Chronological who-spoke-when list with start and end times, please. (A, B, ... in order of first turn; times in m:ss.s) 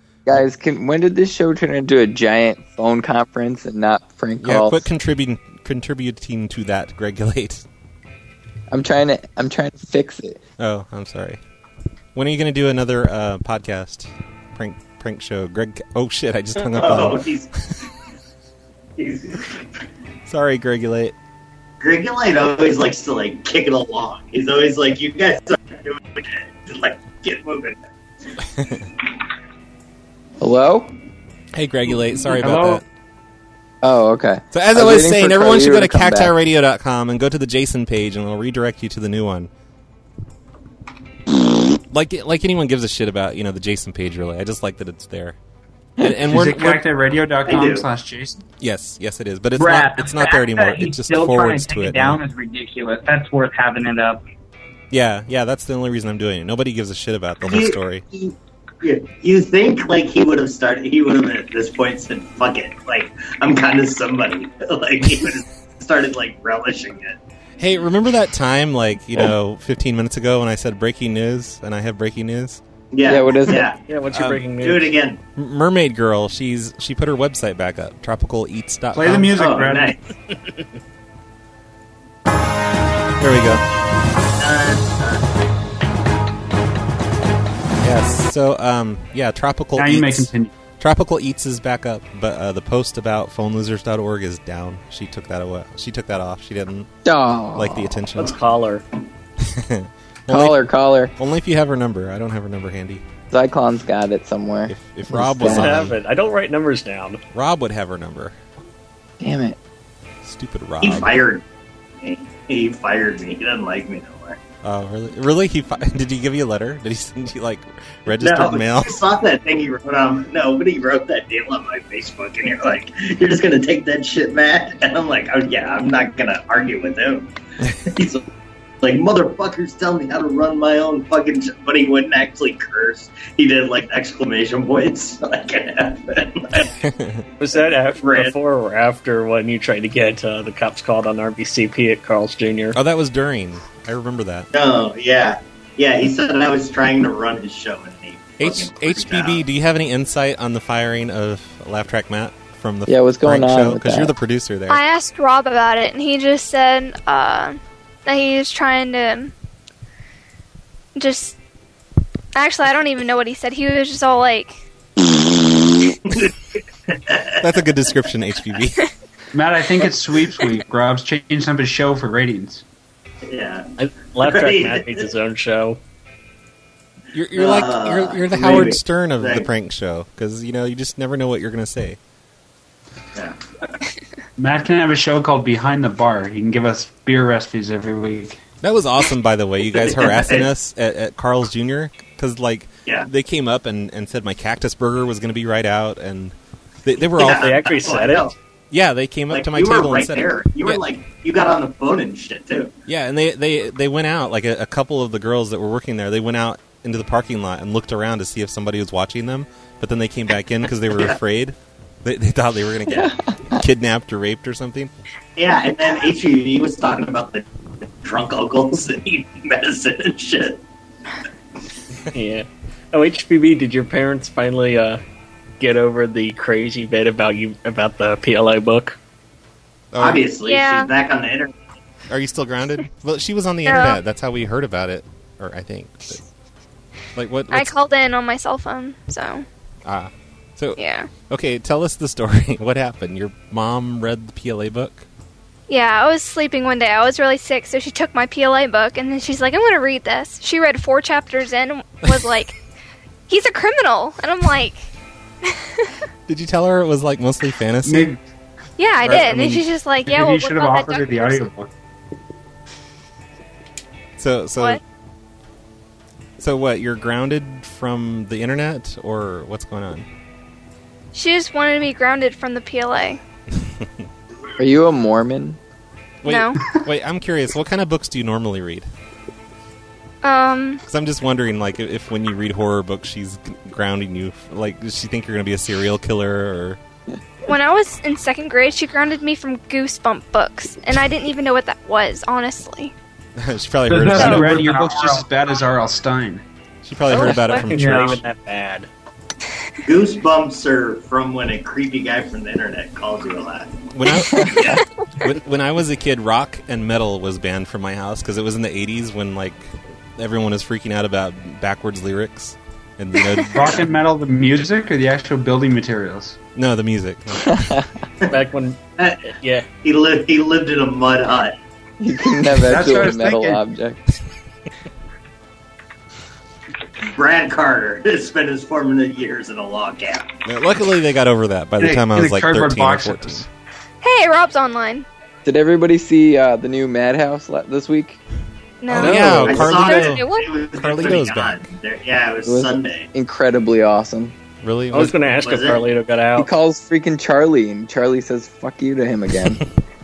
0:00.3-0:04.9 A
0:04.4-0:07.6 B
0:08.7-0:10.4 A
0:10.6-0:11.4 B
0:12.2-0:17.2 B
0:16.6-0:17.5 C
0:19.0-0:19.6 C
0:20.3-0:21.2 B
0:21.8-0:27.8 C
0:30.4-0:30.9 A
0:31.5-0:32.8 B
0:32.4-0:32.8 D
0:33.8-0:36.3 A
0:34.5-0:39.5 B
0:41.9-0:45.4 B
0:46.0-0:46.8 B
0:46.2-0:48.4 D
0:47.5-0:47.8 C
0:48.6-0:52.2 B
0:49.6-0:54.2 E
0:54.9-0:58.0 B
0:57.4-1:07.2 C
1:07.6-1:12.6 B
1:12.9-1:13.8 C
1:13.0-1:13.7 A
1:13.9-1:14.9 F
1:14.1-1:14.4 B
1:14.6-1:15.2 C
1:15.4-1:19.3 B
1:18.9-1:20.0 D
1:19.4-1:20.0 C
1:23.2-1:23.6 B
1:24.4-1:25.2 C
1:27.8-1:36.9 B
1:29.8-1:30.5 D
1:37.0-1:38.0 A
1:37.6-1:38.4 B
1:38.2-1:38.8 F
1:39.4-1:40.6 B
1:40.3-1:41.1 A
1:41.2-1:43.0 B
1:43.3-1:45.8 A
1:44.7-1:46.0 B
1:45.4-1:47.2 F
1:47.3-1:48.4 B
1:49.2-1:49.6 A
1:50.2-1:51.2 B
1:50.8-1:51.4 C
1:52.0-1:54.4 C
1:54.6-1:59.0 B
1:58.1-2:07.3 C
2:07.8-2:08.2 C
2:08.8-2:16.7 C
2:16.8-2:17.2 B
2:17.4-2:22.8 F
2:18.0-2:18.3 C
2:22.7-2:24.5 B
2:24.5-2:29.4 C
2:28.4-2:34.8 B
2:32.9-2:34.1 A
2:34.7-2:39.3 G
2:41.0-2:41.4 G
2:42.4-2:44.6 G
2:46.0-2:46.3 C
2:46.9-2:47.4 C
2:47.4-2:48.8 B
2:49.3-2:52.6 D
2:53.2-2:53.7 C
2:53.8-2:55.8 F
2:54.2-2:55.0 C
2:57.1-3:02.0 B
2:57.4-2:59.5 C
3:04.4-3:08.4 D
3:08.6-3:17.5 B
3:09.7-3:10.5 C
3:17.2-3:18.3 C
3:17.3-3:18.3 F
3:18.7-3:20.8 B
3:19.3-3:22.7 C
3:22.9-3:34.9 B
3:35.4-3:37.4 C
3:38.0-3:40.6 C
3:42.1-3:45.0 F
3:45.6-3:49.0 F
3:49.9-3:50.2 B
3:50.0-3:51.5 C
3:50.4-3:50.9 G
3:52.1-3:56.2 B
3:53.6-3:54.0 G
3:57.2-3:57.8 B
3:57.5-3:59.4 G
3:59.8-4:05.1 B
4:00.8-4:01.1 G
4:05.7-4:12.6 G
4:13.3-4:14.9 G
4:15.4-4:15.9 G
4:16.3-4:18.1 B
4:17.8-4:18.2 D
4:18.8-4:21.5 G
4:19.0-4:19.6 B
4:19.0-4:21.7 D
4:24.2-4:24.8 B
4:26.4-4:30.1 B
4:31.1-4:33.2 G
4:34.6-4:35.6 A
4:36.2-4:38.9 B
4:36.3-4:36.6 G
4:40.2-4:40.8 G
4:40.9-4:46.8 B
4:47.5-4:52.9 G
4:53.4-4:54.6 B
4:53.9-4:56.4 D
4:53.9-4:55.3 E
4:56.8-4:58.2 B
4:57.1-4:57.9 G
4:57.5-4:58.9 F
4:57.8-4:58.1 E
4:59.8-5:03.8 C
5:03.9-5:04.7 B
5:04.3-5:04.8 A
5:05.2-5:13.8 B
5:13.5-5:16.4 D
5:16.6-5:17.7 B
5:17.5-5:17.8 A
5:18.3-5:18.8 F
5:19.0-5:19.3 C
5:19.4-5:19.7 F
5:19.8-5:21.6 C
5:22.0-5:24.0 A
5:22.6-5:23.6 D
5:27.1-5:30.3 C
5:30.5-5:33.4 B
5:31.8-5:33.5 D
5:34.0-5:35.1 G
5:35.4-5:38.2 A
5:38.8-5:40.6 G
5:38.9-5:40.2 B
5:39.0-5:39.6 A
5:39.4-5:43.1 C
5:40.7-5:41.6 B
5:42.5-5:44.4 A
5:44.6-5:45.2 B
5:44.9-5:46.5 F
5:45.4-5:45.8 C
5:46.4-5:49.6 A